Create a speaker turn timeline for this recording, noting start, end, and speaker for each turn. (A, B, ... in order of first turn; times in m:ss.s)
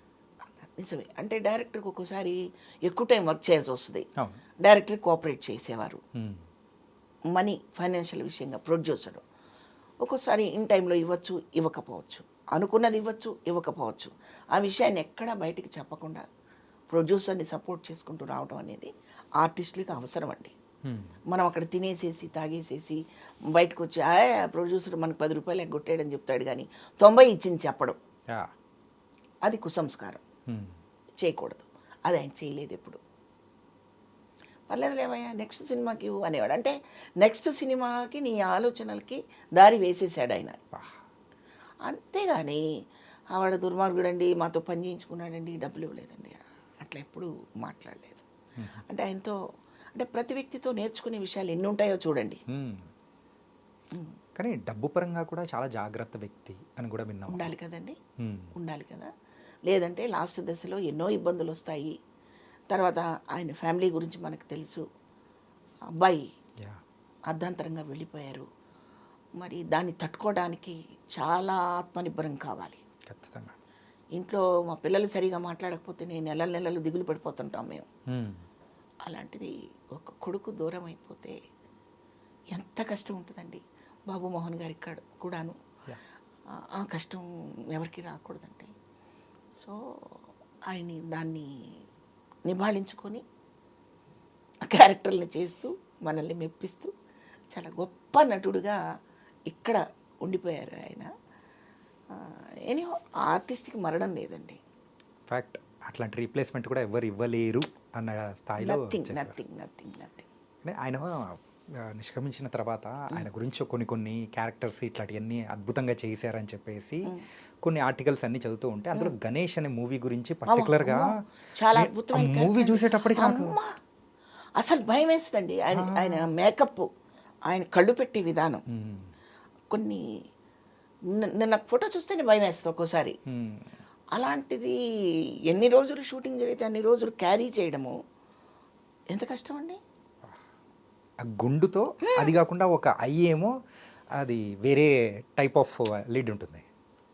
0:00.5-0:04.0 A
0:04.6-0:06.0 A
0:07.4-0:09.2 A
0:10.0-0:16.2 A
0:16.9-0:18.9 A
0:19.4-0:20.6 A
0:20.9-0:21.1 B
0:21.3-0:23.0 A
0:23.6-0:28.0 A
0:29.5-0:30.2 A
0:30.5-0:30.8 B
0:31.2-0:33.0 A
0:34.7-0:40.6 A
0:40.7-0:41.0 B
0:41.9-0:42.6 A
0:43.4-0:48.2 A
0:48.9-0:49.4 A
0:50.0-0:52.4 A
0:52.5-0:52.9 B
0:54.4-0:57.5 B
0:57.3-0:58.0 A
0:58.2-0:58.5 B
0:58.6-0:59.1 A
0:59.7-1:01.9 A
1:02.7-1:04.8 A
1:06.0-1:06.2 A
1:07.3-1:08.5 A
1:09.4-1:12.8 A
1:13.1-1:13.6 B
1:14.2-1:17.8 A
1:18.1-1:18.4 B
1:19.1-1:21.4 A
1:22.6-1:25.6 A
1:26.8-1:28.7 A
1:30.7-1:31.5 A
1:32.5-1:33.2 A
1:34.7-1:36.9 A
1:37.5-1:38.8 A
1:39.5-1:41.1 A
1:42.1-1:44.6 A
1:45.3-1:49.4 B
1:48.6-1:50.3 A
1:50.6-1:57.0 B
1:57.6-2:01.1 B
2:00.5-2:01.0 A
2:01.6-2:03.7 A
2:01.7-2:03.6 B
2:04.6-2:06.9 A
2:05.7-2:06.3 B
2:07.5-2:08.6 A
2:08.7-2:09.1 B
2:09.7-2:10.0 A
2:11.2-2:13.2 A
2:13.3-2:13.7 B
2:14.2-2:14.8 A
2:15.5-2:17.9 A
2:19.1-2:19.8 A
2:21.2-2:23.5 B
2:24.2-2:26.6 B